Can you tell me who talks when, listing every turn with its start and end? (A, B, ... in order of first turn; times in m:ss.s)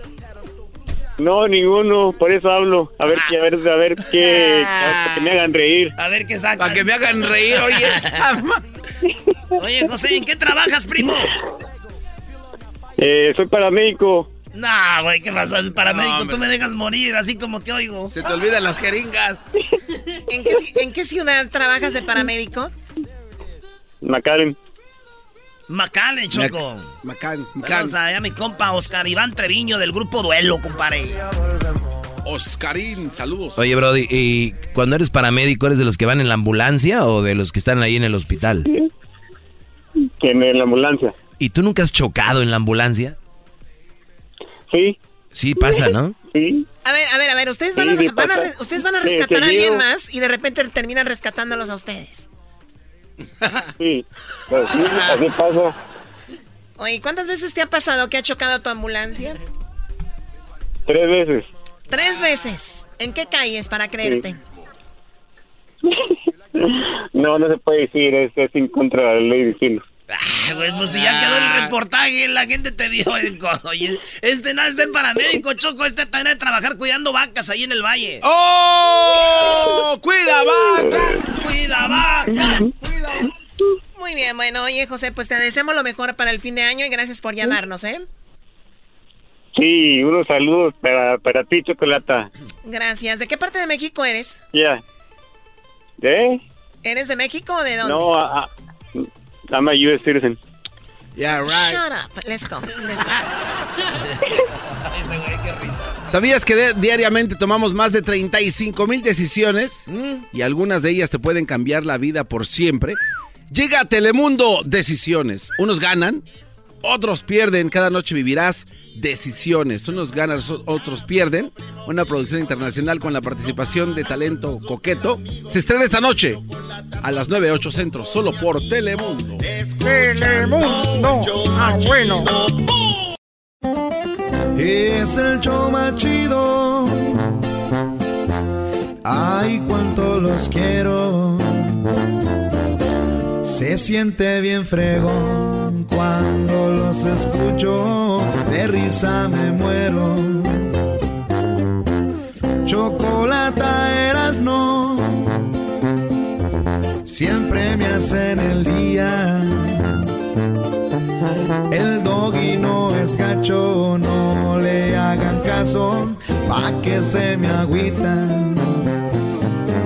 0:01.2-0:05.9 A
0:04.7-0:05.1 B
0:06.0-0:08.2 C
0:06.6-0:08.6 B
0:09.6-0:11.3 C
0:13.0-0:14.3 A
0:14.5-0:18.1 C
0:15.9-0:16.4 B
0:18.1-0:19.4 B
0:20.3-0:22.7 D
0:24.0-0:24.6 A
0:25.7-0:26.9 C
0:26.3-0:28.0 B
0:27.6-0:31.2 C
0:32.2-0:33.6 B
0:33.6-0:38.7 E
0:40.2-0:41.2 A
0:41.4-0:43.2 E
0:44.7-0:45.0 A
0:45.3-0:46.2 E
0:46.3-0:46.7 A
0:46.8-0:52.3 D
0:47.8-0:48.5 A
0:49.0-0:49.8 A
0:53.8-0:55.8 A
0:56.8-0:59.4 D
1:00.9-1:01.5 A
1:01.9-1:04.4 D
1:06.6-1:09.8 A
1:10.1-1:18.2 C
1:10.8-1:11.7 B
1:18.2-1:21.2 B
1:20.9-1:21.2 A
1:21.3-1:22.7 C
1:24.0-1:28.0 D
1:29.6-1:32.3 A
1:32.6-1:34.4 D
1:34.5-1:34.8 A
1:36.0-1:36.4 A
1:36.8-1:38.1 D
1:37.8-1:38.5 A
1:39.5-1:40.4 A
1:41.2-1:41.8 B
1:41.5-1:43.2 D
1:44.8-1:46.0 C
1:46.1-1:53.0 B
1:53.5-1:56.2 B
1:56.8-2:06.4 B
2:06.6-2:06.9 F
2:07.0-2:09.4 B
2:09.4-2:12.9 F
2:14.6-2:17.3 G
2:19.0-2:21.8 G
2:23.4-2:30.7 G
2:32.6-2:35.3 G
2:37.0-2:39.9 G
2:41.7-2:48.8 G